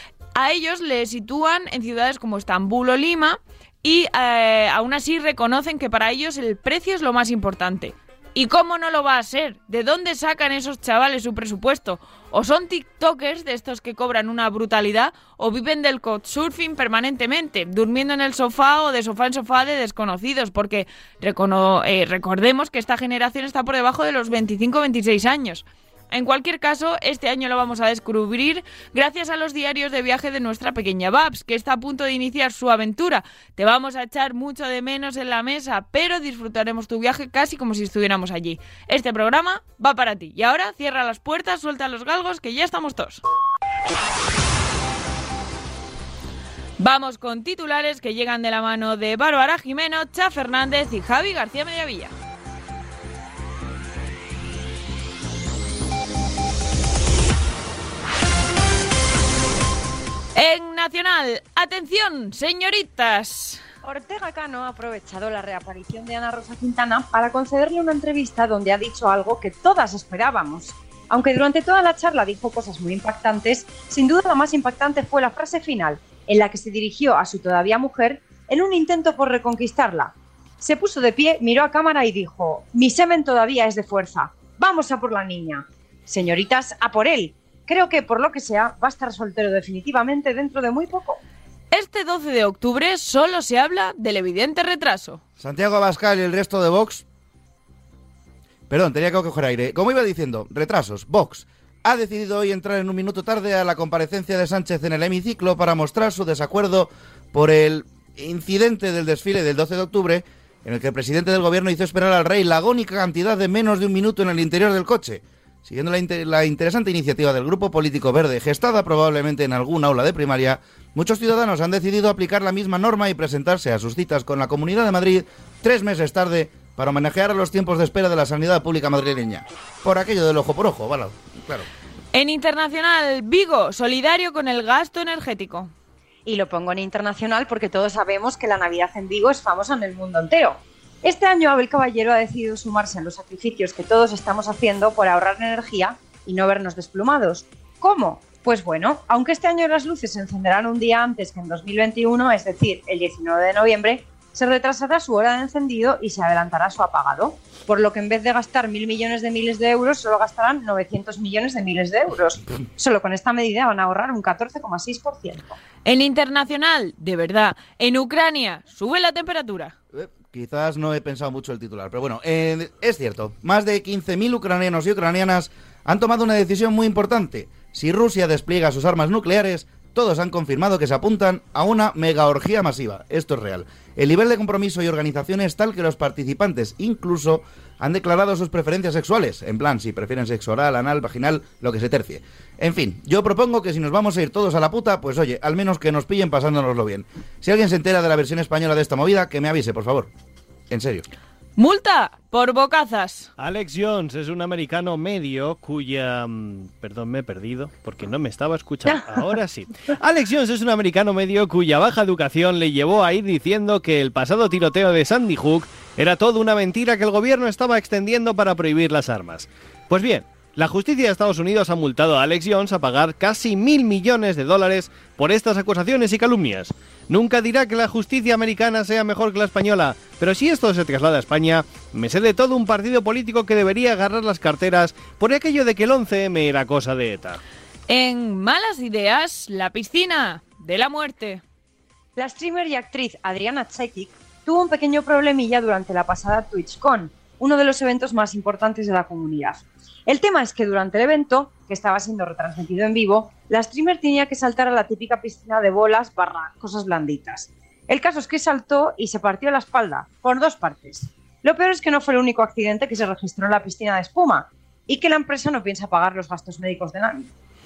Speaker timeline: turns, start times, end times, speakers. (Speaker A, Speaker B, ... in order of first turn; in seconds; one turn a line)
Speaker A: 0.3-43.2
Speaker A: 46.8-52.1
Speaker A: 60.3-63.6
Speaker B: 63.8-91.2
Speaker A: 91.7-95.2
Speaker C: 95.4-97.0
Speaker C: 98.7-131.7
Speaker A: 132.1-135.7
Speaker B: 136.2-165.6
Speaker A: 165.8-169.7
Speaker C: 169.9-200.1
Speaker C: 200.7-201.0
Speaker A: 201.6-203.3
Speaker D: 203.4-237.4
Speaker A: 237.9-241.4
Speaker B: 242.2-267.3